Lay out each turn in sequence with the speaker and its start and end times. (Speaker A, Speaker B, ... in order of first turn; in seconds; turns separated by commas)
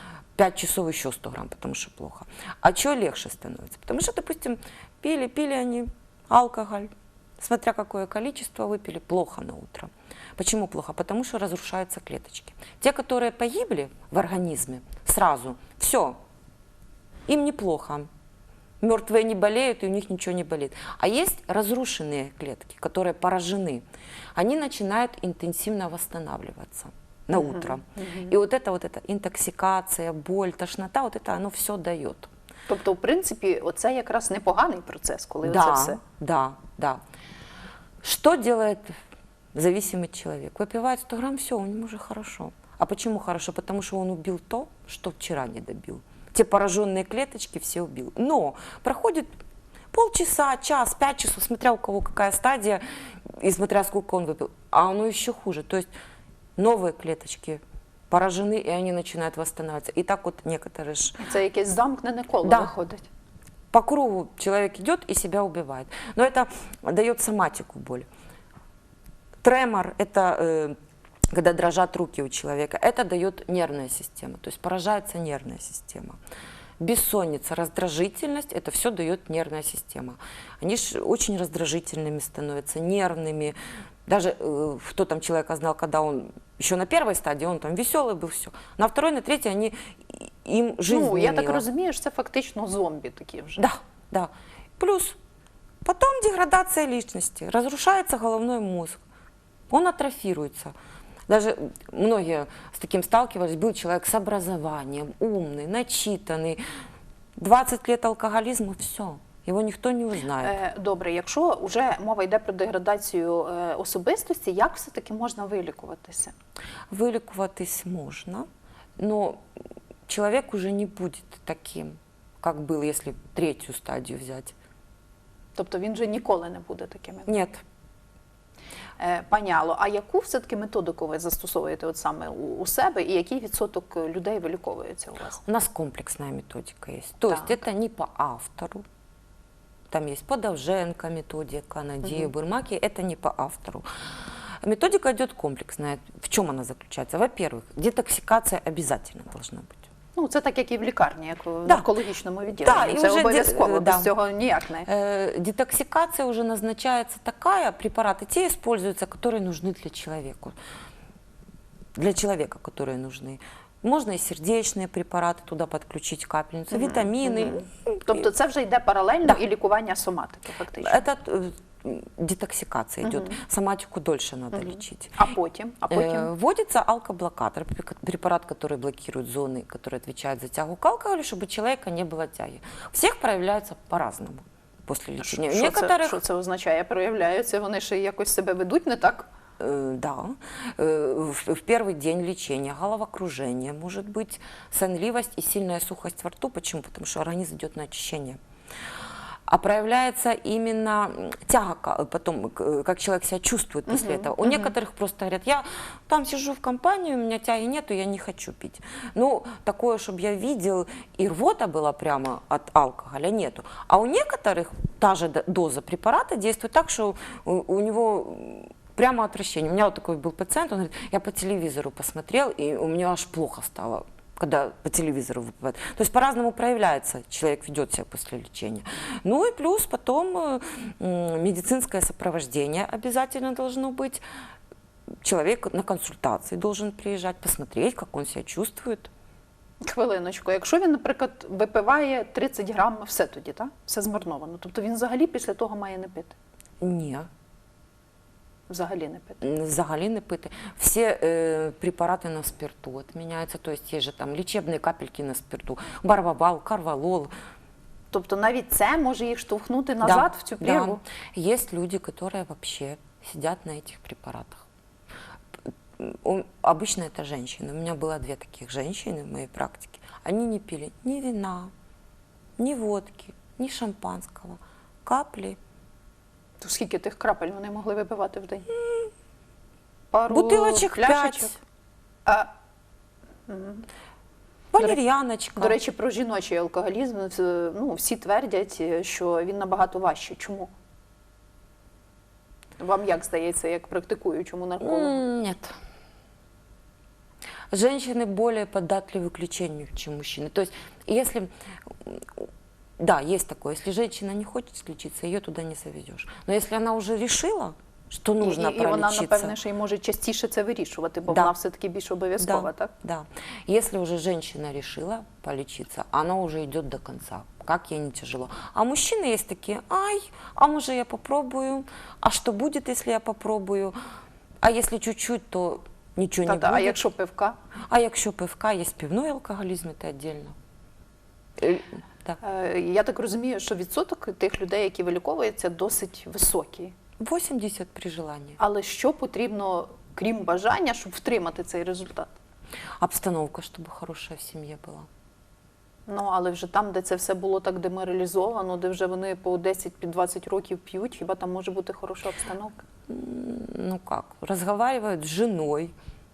Speaker A: 0.3-16.2, Speaker A: 17.3-18.1, Speaker A: 18.8-32.3, Speaker B: 27.3-28.3, Speaker B: 32.7-36.0, Speaker A: 35.4-37.0, Speaker A: 38.0-39.0, Speaker A: 39.5-49.3, Speaker A: 49.9-55.9, Speaker A: 56.6-61.2, Speaker B: 61.2-63.1, Speaker A: 62.4-62.7, Speaker A: 63.7-68.1, Speaker A: 69.4-70.8, Speaker A: 71.3-76.2, Speaker A: 76.8-83.5, Speaker A: 84.1-91.7, Speaker B: 90.9-93.6, Speaker A: 93.6-95.2, Speaker A: 95.8-99.0, Speaker A: 99.7-100.8, Speaker A: 101.3-106.6, Speaker A: 107.4-110.6, Speaker B: 110.4-116.3, Speaker A: 116.9-119.4, Speaker A: 120.1-124.5, Speaker B: 125.6-127.3, Speaker A: 127.3-127.6, Speaker B: 129.0-135.4, Speaker A: 135.5-138.8, Speaker B: 137.3-137.6, Speaker A: 139.9-149.8, Speaker B: 150.2-154.9, Speaker A: 152.6-154.1, Speaker A: 154.8-160.6, Speaker A: 161.9-168.3, Speaker B: 166.7-171.0, Speaker A: 170.8-175.2, Speaker B: 173.0-173.4, Speaker B: 174.5-176.3, Speaker A: 175.9-186.2, Speaker B: 185.2-189.3, Speaker A: 189.6-198.4, Speaker A: 199.5-234.2, Speaker B: 203.9-204.7, Speaker A: 235.2-239.1, Speaker B: 239.8-246.3, Speaker A: 246.8-247.3, Speaker B: 248.7-249.4, Speaker A: 249.4-257.3, Speaker B: 258.1-261.0, Speaker A: 260.0-264.7, Speaker A: 266.0-271.7, Speaker A: 272.6-275.6, Speaker B: 276.6-278.7, Speaker A: 278.8-279.1, Speaker B: 280.1-281.6, Speaker A: 280.3-281.5, Speaker B: 282.3-282.5, Speaker B: 283.5-283.9, Speaker A: 284.7-285.8, Speaker B: 285.6-290.7, Speaker B: 292.8-295.2, Speaker A: 294.8-295.8, Speaker A: 297.7-302.5, Speaker A: 303.0-309.6, Speaker B: 308.4-312.9, Speaker A: 311.3-311.5, Speaker A: 312.4-323.9, Speaker A: 324.6-327.0, Speaker B: 326.5-327.6, Speaker A: 327.9-330.6, Speaker A: 331.6-332.4, Speaker B: 332.4-336.9, Speaker A: 337.2-338.6, Speaker B: 338.6-342.3, Speaker A: 343.0-345.1, Speaker B: 346.1-352.8, Speaker A: 353.1-355.9